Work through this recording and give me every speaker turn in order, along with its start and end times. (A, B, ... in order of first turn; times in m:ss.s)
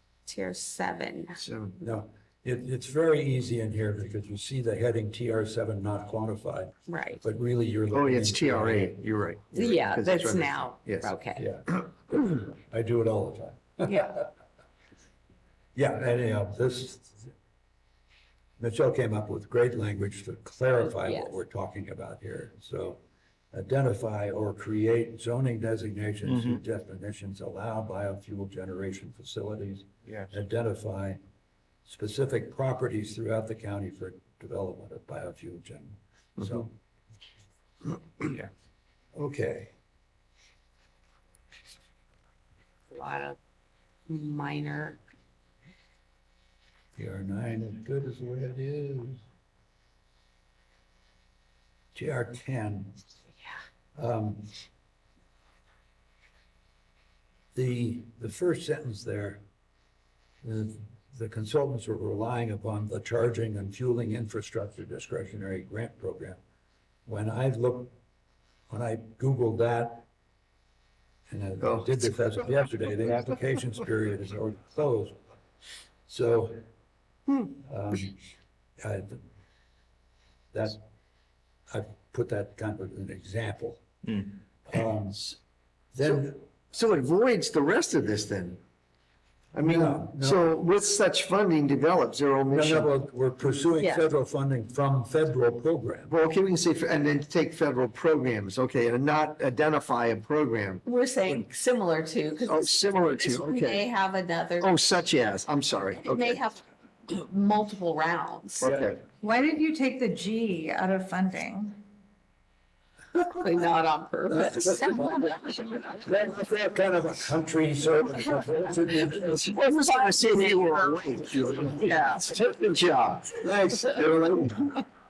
0:00.3-0:01.4 A
0:01.4-0:01.8 B
0:01.8-0:09.0 C
0:06.9-0:07.2 A
0:07.9-0:11.1 B
0:09.5-0:11.4 A
0:11.4-0:14.2 C
0:13.8-0:14.2 A
0:15.7-0:17.3 C
0:18.6-0:23.0 C
0:20.8-0:21.3 A
0:23.5-0:31.2 C
0:31.8-0:36.7 C
0:39.1-0:39.7 C
0:42.9-0:43.4 A
0:44.1-0:45.0 A
0:47.0-0:49.2 C
0:51.9-0:53.0 C
0:54.0-0:54.5 C
0:57.5-0:59.4 C
1:00.4-1:06.4 C
1:07.0-1:07.9 C
1:08.7-1:10.1 C
1:11.3-1:15.1 C
1:11.6-1:11.9 B
1:16.1-1:16.6 C
1:17.6-1:18.2 C
1:18.8-1:19.2 C
1:20.5-1:20.8 C
1:21.7-1:25.4 C
1:25.9-1:26.4 C
1:26.0-1:28.6 B
1:29.5-1:32.9 B
1:29.6-1:30.5 C
1:32.5-1:36.1 C
1:33.8-1:34.0 A
1:36.1-1:40.8 B
1:40.8-1:44.8 A
1:42.5-1:43.8 B
1:44.6-1:46.4 B
1:46.0-1:48.7 A
1:48.6-1:49.0 B
1:48.6-1:49.0 C
1:49.2-1:51.8 D
1:53.2-1:55.6 A
1:54.3-1:59.5 C
1:59.4-2:04.5 B
1:59.8-2:00.7 A
2:01.3-2:01.9 C
2:01.6-2:02.4 A
2:03.4-2:04.7 C